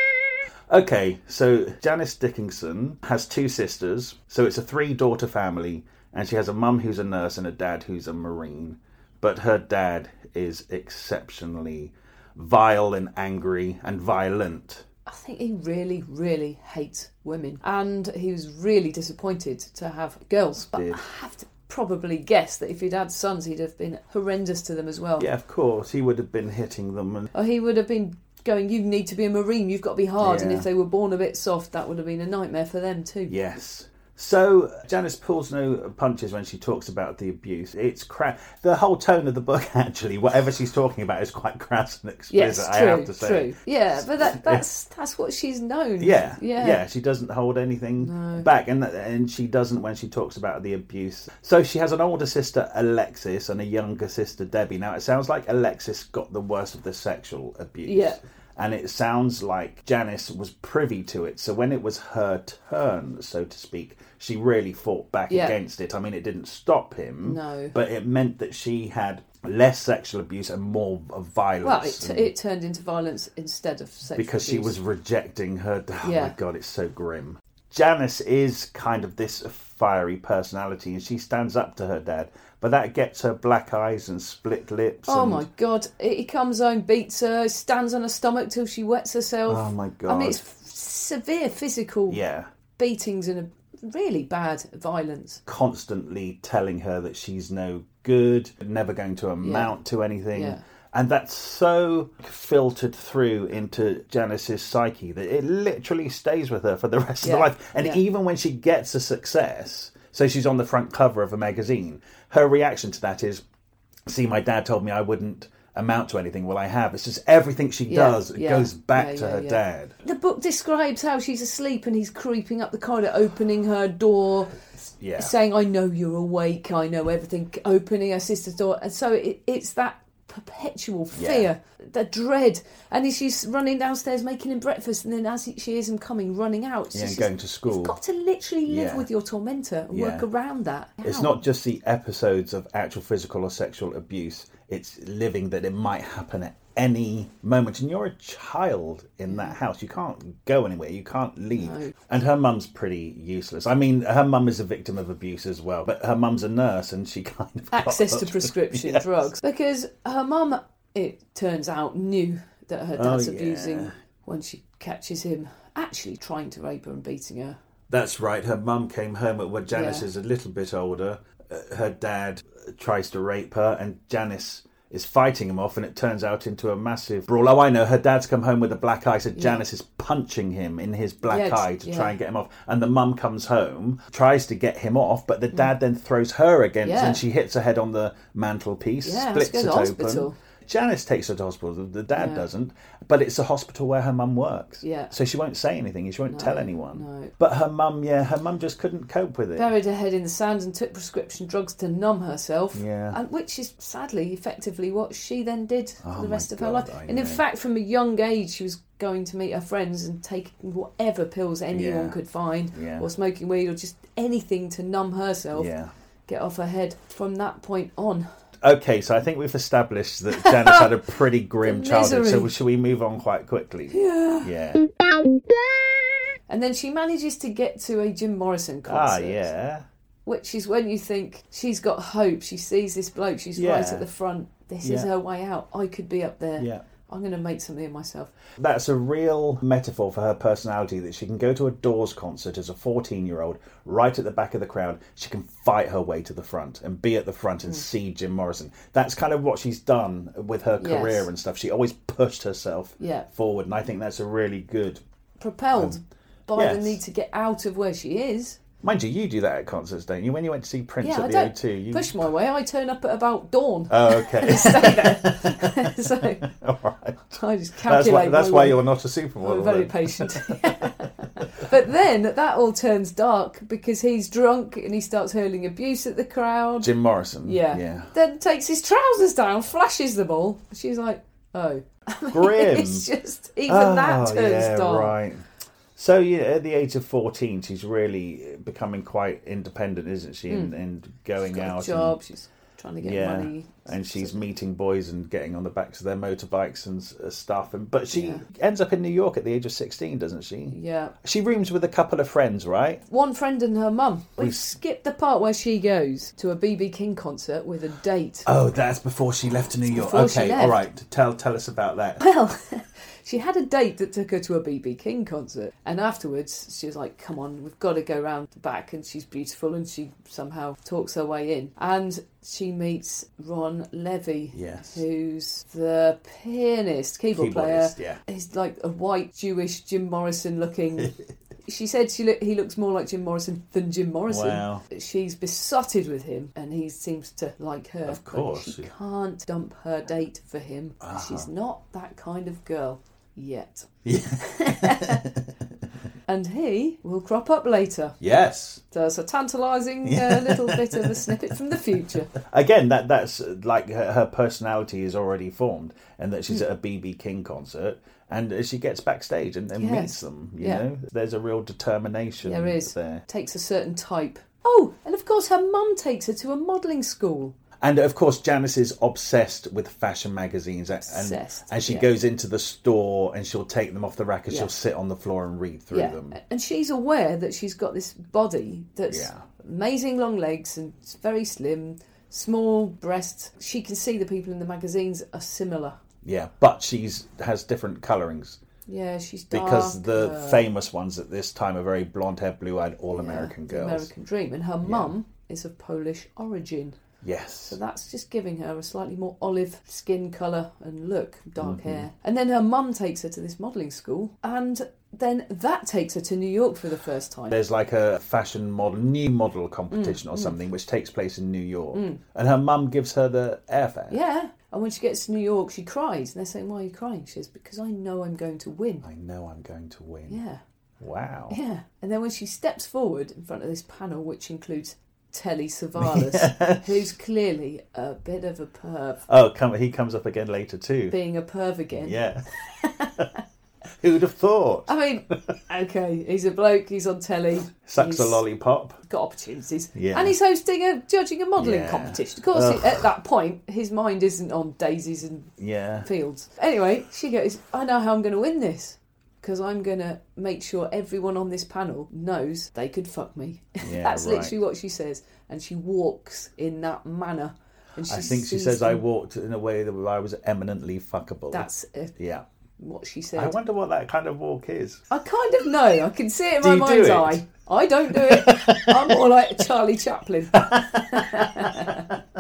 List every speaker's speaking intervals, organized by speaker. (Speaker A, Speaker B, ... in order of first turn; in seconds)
Speaker A: 0.7-14.8, 20.7-21.0, 25.2-27.3, 30.2-30.7, 33.3-44.6, 46.0-72.3, 74.1-85.5, 89.5-90.4, 92.1-92.5, 95.5-113.4, 114.1-119.9, 125.0-125.3, 131.1-131.5, 136.9-137.9, 138.7-139.1, 139.9-140.3, 141.0-159.2, 162.9-163.9, 167.9-199.7, 202.7-203.2, 206.0-207.4, 211.7-212.2, 212.7-213.1, 215.5-215.9, 218.6-224.8, 228.9-229.8, 233.6-234.1, 234.8-235.1, 236.6-236.8, 238.6-255.0, 256.5-257.0, 258.8-262.2, 263.9-271.7, 276.8-278.1, 282.3-283.1, 283.7-285.4, 285.9-292.2, 293.0-303.0, 304.4-304.6, 308.4-312.2, 324.5-325.0, 327.3-328.2, 334.3-334.8, 338.1-338.9, 341.0-341.5, 344.0-345.5, 348.2-348.8, 350.0-363.2, 367.8-376.4, 379.1-379.4, 386.2-388.6, 389.5-394.1, 394.8-395.1, 397.2-397.8, 401.6-402.1, 407.5-414.2, 419.0-420.4, 421.0-421.6, 426.0-427.1, 429.3-431.1, 431.9-432.4, 434.0-435.6, 437.9-439.0, 439.9-440.4, 441.6-443.1, 445.6-446.1, 453.8-454.6, 458.1-462.4, 463.4-465.0, 466.6-467.4, 468.1-469.2, 470.5-472.2
Speaker B: 15.1-25.3, 27.3-33.4, 42.3-46.8, 48.0-48.5, 57.9-58.2, 65.3-65.5, 67.2-67.7, 71.6-74.8, 76.0-76.3, 85.1-92.2, 92.8-95.4, 99.4-99.7, 100.3-100.6, 107.2-108.0, 117.9-124.6, 125.2-141.4, 149.3-149.6, 151.5-151.9, 157.7-167.6, 169.7-170.1, 179.3-179.6, 181.2-182.2, 186.8-187.2, 189.0-190.3, 192.2-192.4, 194.8-195.1, 196.3-197.3, 199.6-215.7, 216.3-218.3, 220.3-220.9, 221.6-222.5, 223.9-224.5, 226.5-229.5, 230.2-238.3, 250.8-251.3, 253.0-253.3, 255.4-258.6, 261.0-266.4, 267.4-268.8, 269.4-276.9, 277.4-285.2, 290.5-290.8, 291.4-294.4, 298.1-298.4, 300.7-301.1, 303.1-308.5, 309.9-310.9, 312.2-331.1, 331.7-345.2, 346.3-348.2, 348.9-352.3, 359.8-360.8, 362.4-367.6, 371.1-372.1, 375.9-386.0, 388.9-390.7, 393.1-397.0, 397.7-407.6, 409.9-410.6, 411.9-412.2, 414.1-419.1, 420.3-420.6, 421.5-429.2, 431.1-433.4, 434.9-438.4, 439.0-445.5, 446.0-459.0, 461.5-462.1, 462.8-463.6, 465.1-472.1